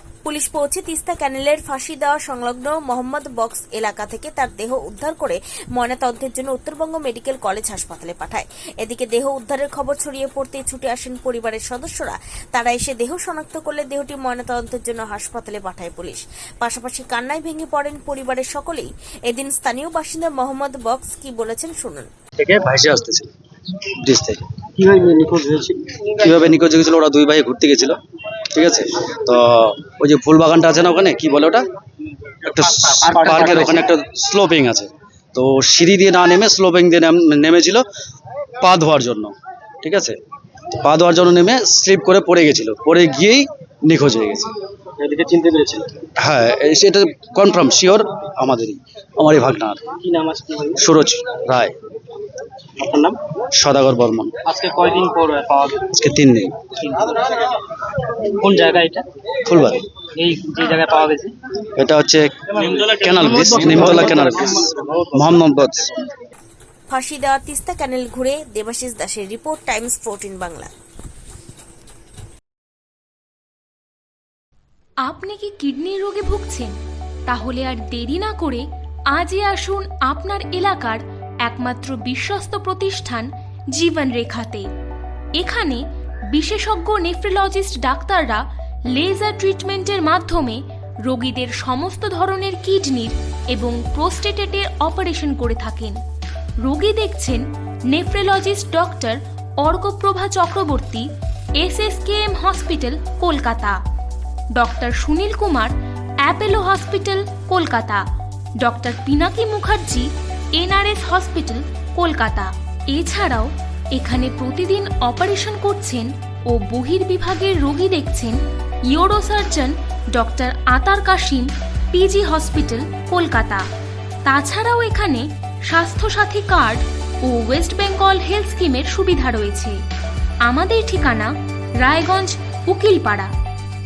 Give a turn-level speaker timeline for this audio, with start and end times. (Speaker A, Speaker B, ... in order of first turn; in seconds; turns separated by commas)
Speaker A: 0.3-22.1, Speaker B: 22.5-23.3, Speaker B: 23.9-24.4, Speaker C: 24.8-25.9, Speaker B: 26.1-28.0, Speaker B: 28.5-31.6, Speaker B: 32.4-37.9, Speaker C: 33.0-33.9, Speaker B: 38.6-40.2, Speaker B: 40.8-44.5, Speaker C: 45.0-46.0, Speaker B: 46.2-49.9, Speaker C: 50.0-50.8, Speaker B: 50.8-51.8, Speaker C: 52.8-53.2, Speaker B: 53.5-54.4, Speaker C: 54.4-55.9, Speaker B: 55.9-56.6, Speaker C: 56.8-57.4, Speaker C: 58.3-59.1, Speaker B: 59.5-59.8, Speaker C: 60.2-61.4, Speaker B: 61.8-65.9, Speaker C: 62.7-65.0, Speaker A: 66.9-70.7, Speaker D: 75.1-76.8, Speaker D: 77.3-84.7, Speaker D: 85.4-96.0, Speaker D: 96.6-101.1, Speaker D: 101.6-103.8, Speaker D: 104.6-108.0, Speaker D: 108.6-123.7, Speaker D: 124.3-129.8, Speaker D: 130.5-133.3